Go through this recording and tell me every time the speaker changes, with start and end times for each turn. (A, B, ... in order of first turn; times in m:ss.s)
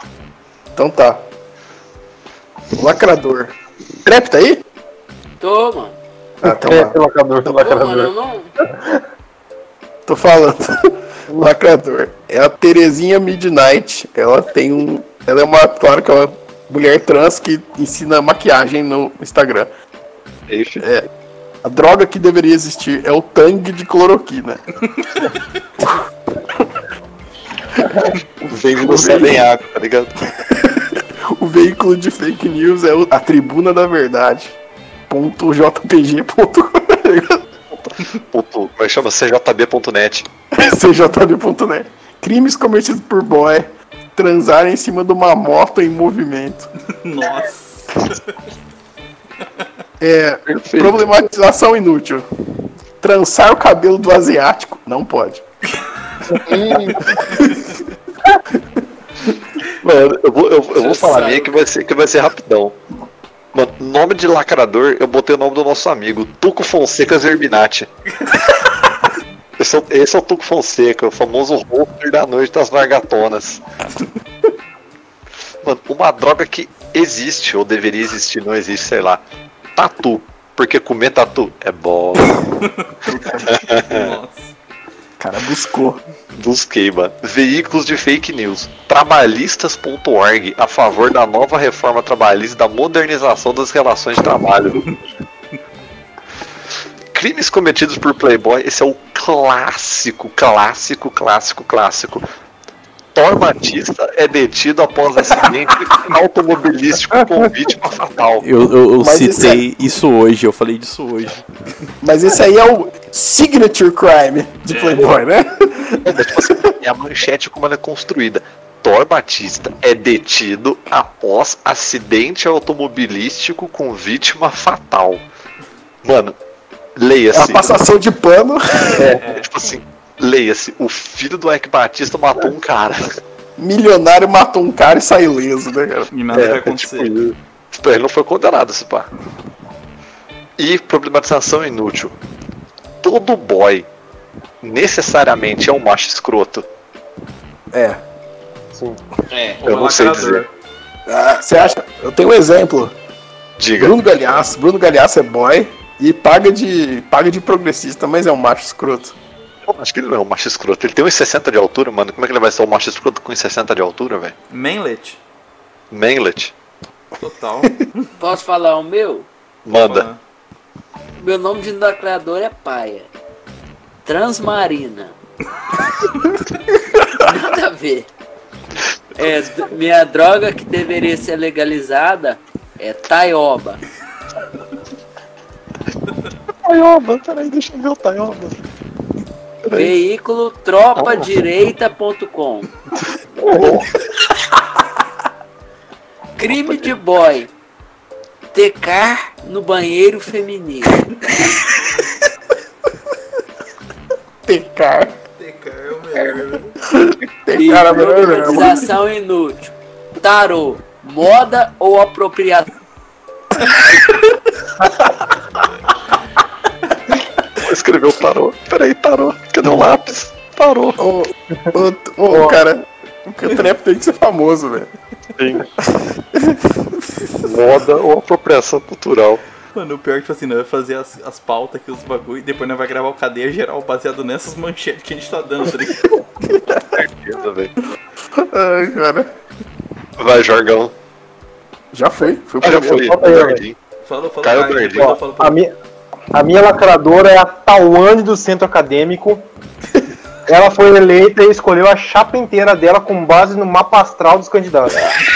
0:00.7-0:01.2 A
0:02.8-0:04.6 A
0:05.4-0:06.0 B
0:06.4-0:07.0 A
0:06.4-0:08.1 C
0:07.4-0:08.5 B
0:08.6-0:09.0 C
0:10.0-0:19.7 A
0:20.5-0:20.9 D
0:20.8-0:21.1 A
0:21.6-0:24.6 A
0:28.1-0:30.1 D
0:28.8-0:29.4 A
0:30.4-0:34.6 A
0:35.1-0:37.4 A
0:37.7-0:40.7 D
0:40.5-0:46.7 A
0:46.9-0:48.4 E
0:50.0-0:52.2 A
0:50.5-0:51.1 D
0:53.0-0:55.4 A
0:56.4-0:57.4 D
0:56.5-0:56.9 C
0:59.7-1:02.8 D
1:00.8-1:01.5 B
1:00.9-1:01.3 E
1:03.5-1:07.9 D
1:09.6-1:13.6 D
1:15.6-1:19.2 D
1:19.8-1:22.4 D
1:22.6-1:24.5 E
1:23.0-1:23.5 A
1:23.5-1:24.2 D
1:25.2-1:26.0 A
1:26.3-1:35.0 D
1:37.1-1:42.2 D
1:43.1-1:48.5 D
1:47.2-1:47.5 C
1:48.4-1:51.4 E
1:49.0-1:49.6 A
1:52.0-1:56.7 A
1:56.0-2:05.2 D
2:06.0-2:06.4 D
2:07.0-2:07.7 D
2:07.3-2:09.2 A
2:08.9-2:13.1 D
2:09.2-2:09.5 E
2:13.6-2:16.1 A
2:16.1-2:17.1 E
2:16.3-2:19.1 D
2:20.6-2:22.1 D
2:23.0-2:23.9 D
2:24.6-2:26.6 D
2:27.7-2:28.0 A
2:28.7-2:29.0 C
2:29.3-2:30.5 E
2:29.6-2:30.4 D
2:31.1-2:32.9 A
2:33.6-2:34.0 D
2:33.8-2:39.2 A
2:39.6-2:44.3 D
2:44.5-2:45.2 E
2:45.9-2:46.5 D
2:47.2-2:48.1 E
2:48.2-2:49.3 B
2:49.6-2:50.1 D
2:49.7-2:50.2 E
2:51.2-2:53.1 B
2:54.0-2:55.2 B
2:57.1-2:58.1 B
2:59.2-3:03.8 B
3:06.6-3:08.6 D
3:09.6-3:09.9 D
3:09.7-3:12.7 B
3:11.0-3:11.3 D
3:13.4-3:13.9 D
3:16.4-3:17.5 B
3:16.5-3:16.9 D
3:18.5-3:21.0 B
3:24.4-3:25.2 A
3:25.4-3:26.8 E
3:26.9-3:28.8 A
3:27.5-3:32.7 B
3:37.6-3:41.0 D
3:41.0-3:44.9 A
3:42.3-3:42.6 C
3:45.4-3:45.7 D
3:45.9-3:47.3 A
3:47.4-3:49.4 D
3:49.7-3:56.2 E
3:56.4-3:57.0 A
3:56.9-3:57.7 D
3:58.3-3:59.3 A
4:00.2-4:00.9 D
4:01.9-4:03.2 A
4:02.6-4:03.8 D
4:03.0-4:03.6 C
4:04.1-4:05.6 E
4:04.4-4:05.2 D
4:05.0-4:05.7 C
4:06.3-4:09.5 C
4:10.4-4:15.2 C